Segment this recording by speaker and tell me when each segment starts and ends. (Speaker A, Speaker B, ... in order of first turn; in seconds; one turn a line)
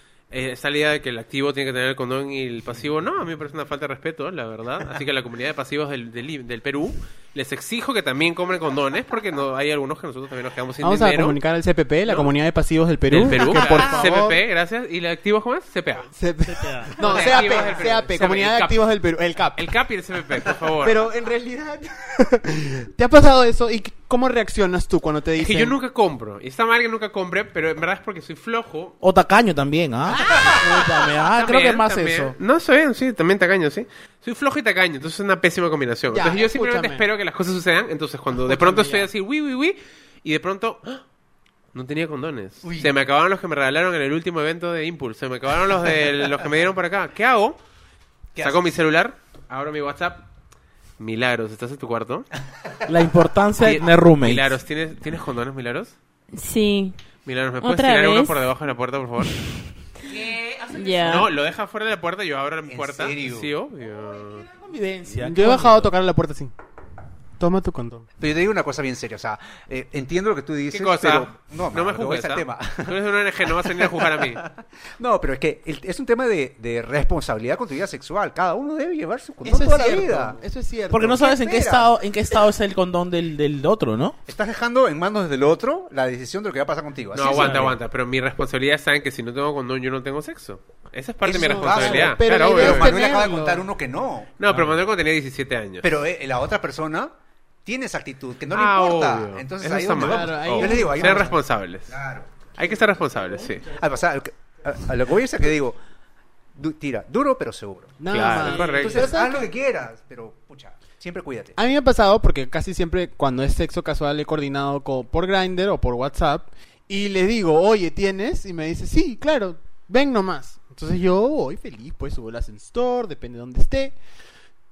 Speaker A: 0.3-11.4
Speaker B: 10.8-14.4
Speaker A: 12.1-12.3
Speaker A: 13.1-16.1
Speaker C: 13.2-14.1
Speaker B: 16.1-19.7
Speaker C: 16.4-17.6
Speaker A: 17.0-18.8
Speaker A: 19.6-21.0
Speaker B: 20.8-25.8
Speaker A: 25.4-29.0
Speaker C: 29.0-32.4
Speaker B: 30.1-30.6
Speaker A: 31.3-41.0
Speaker B: 36.1-37.0
Speaker B: 38.4-39.1
Speaker A: 41.7-47.6
Speaker D: 42.6-42.9
Speaker D: 48.4-48.7
Speaker A: 48.4-50.3
Speaker A: 51.0-52.3
Speaker C: 52.9-54.6
Speaker A: 53.6-56.0
Speaker E: 56.3-57.0
Speaker A: 57.3-59.4
Speaker E: 57.6-58.4
Speaker C: 60.1-61.2
Speaker E: 60.7-61.3
Speaker A: 61.0-64.5
Speaker D: 62.7-63.5
Speaker C: 64.5-65.9
Speaker B: 65.1-66.5
Speaker B: 67.4-68.1
Speaker D: 68.2-80.4
Speaker A: 70.7-74.4
Speaker B: 79.4-81.2
Speaker C: 80.9-84.2
Speaker D: 81.1-81.9
Speaker D: 84.3-87.8
Speaker A: 87.1-93.0
Speaker C: 87.2-87.8
Speaker D: 91.2-94.3
Speaker B: 91.5-93.7
Speaker A: 94.4-95.9
Speaker D: 95.8-97.1
Speaker D: 97.7-102.5
Speaker A: 98.5-102.0
Speaker B: 100.0-101.3
Speaker A: 102.6-103.7
Speaker D: 103.6-105.8
Speaker D: 106.6-111.6
Speaker B: 108.0-109.5
Speaker A: 108.1-109.2
Speaker C: 108.4-108.9
Speaker B: 111.6-124.0